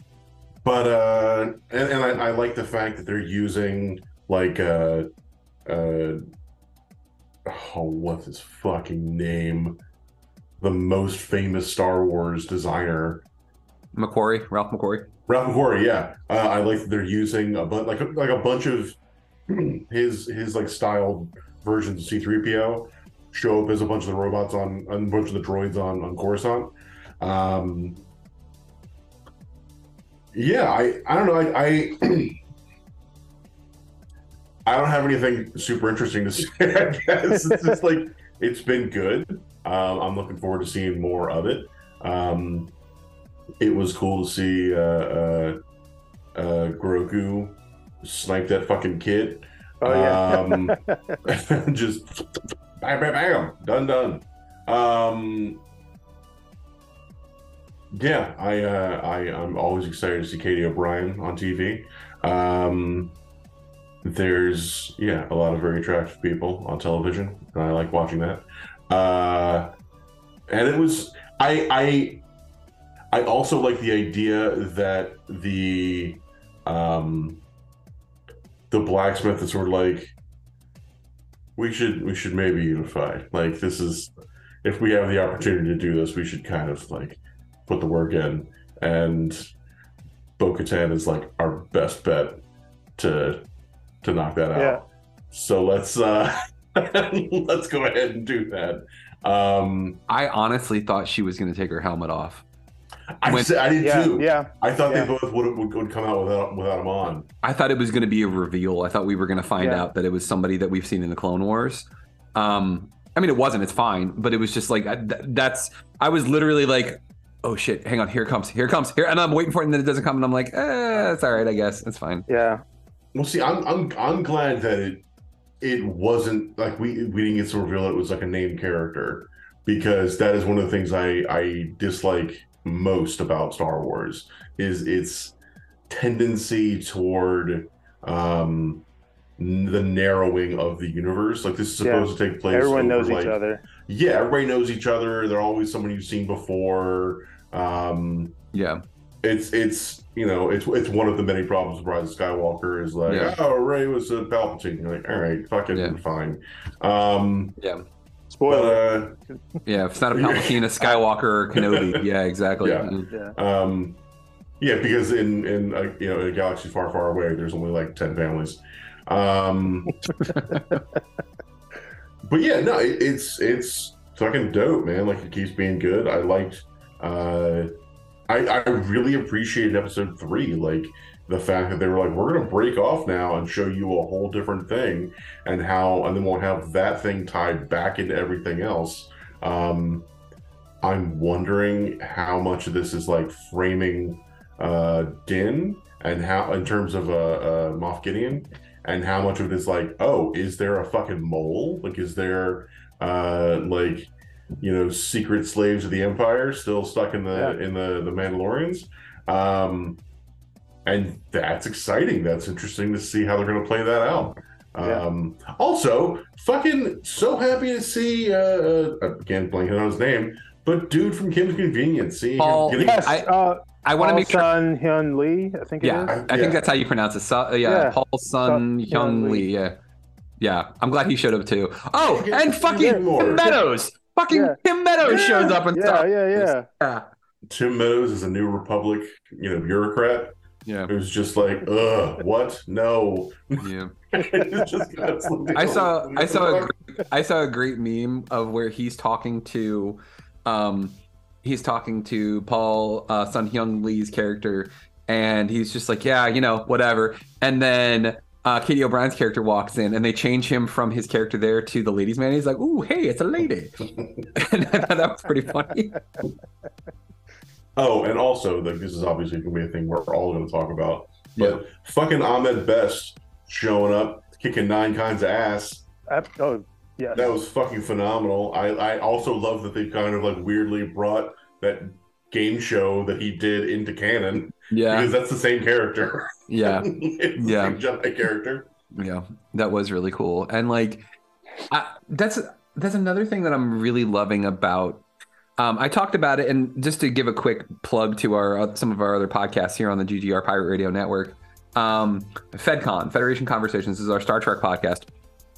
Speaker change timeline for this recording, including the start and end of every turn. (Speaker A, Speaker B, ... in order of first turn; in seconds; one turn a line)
Speaker A: 0.6-5.1
Speaker A: 5.7-6.2
Speaker A: 7.5-9.8
Speaker A: 10.6-13.2
Speaker B: 13.9-15.1
Speaker A: 15.3-19.0
Speaker A: 19.5-28.0
Speaker A: 30.3-32.4
Speaker A: 34.6-42.7
Speaker C: 37.3-37.8
Speaker A: 43.6-45.6
Speaker A: 46.3-50.8
Speaker C: 49.8-51.2
Speaker A: 51.3-52.2
Speaker A: 52.8-55.6
Speaker A: 57.9-63.1
Speaker A: 64.0-69.7
Speaker A: 70.5-72.2
Speaker A: 73.1-77.4
Speaker A: 78.7-80.1
Speaker A: 81.6-84.1
Speaker A: 84.6-89.5
Speaker A: 90.4-92.4
Speaker A: 93.0-93.4
Speaker A: 94.0-100.0
Speaker C: 94.5-94.8
Speaker B: 100.1-102.4
Speaker A: 103.2-107.3
Speaker B: 103.2-103.5
Speaker C: 103.8-105.1
Speaker B: 107.4-122.2
Speaker C: 109.6-109.8
Speaker C: 122.3-122.6
Speaker A: 123.1-125.0
Speaker A: 125.6-135.3
Speaker A: 135.9-138.8
Speaker A: 139.4-148.3
Speaker C: 141.8-143.6
Speaker B: 148.5-148.8
Speaker A: 149.2-157.6
Speaker B: 153.1-153.4
Speaker B: 155.7-156.0
Speaker B: 157.6-157.8
Speaker C: 158.3-158.8
Speaker A: 158.5-159.2
Speaker B: 159.7-163.1
Speaker A: 160.1-160.6
Speaker A: 161.5-162.0
Speaker A: 162.6-164.0
Speaker C: 163.1-163.3
Speaker A: 164.6-169.9
Speaker B: 170.3-170.6
Speaker A: 172.2-177.7
Speaker A: 178.3-190.1
Speaker A: 190.8-204.1
Speaker A: 204.6-210.0
Speaker A: 210.8-223.0
Speaker B: 222.4-223.3
Speaker C: 222.7-226.1
Speaker B: 223.8-224.5
Speaker B: 225.8-229.8
Speaker A: 226.1-226.6
Speaker C: 227.6-229.5
Speaker B: 230.4-237.1
Speaker A: 232.0-233.5
Speaker C: 232.8-233.4
Speaker C: 234.3-234.6
Speaker C: 235.2-236.7
Speaker A: 237.5-240.3
Speaker B: 240.7-240.9
Speaker A: 240.9-246.7
Speaker B: 243.6-243.9
Speaker B: 245.5-263.8
Speaker B: 264.3-266.0
Speaker A: 267.8-275.9
Speaker B: 271.4-271.6
Speaker C: 276.1-277.3
Speaker A: 277.1-288.7
Speaker B: 284.7-285.1
Speaker B: 286.5-287.8
Speaker B: 288.9-291.0
Speaker B: 291.7-295.0
Speaker B: 295.6-305.1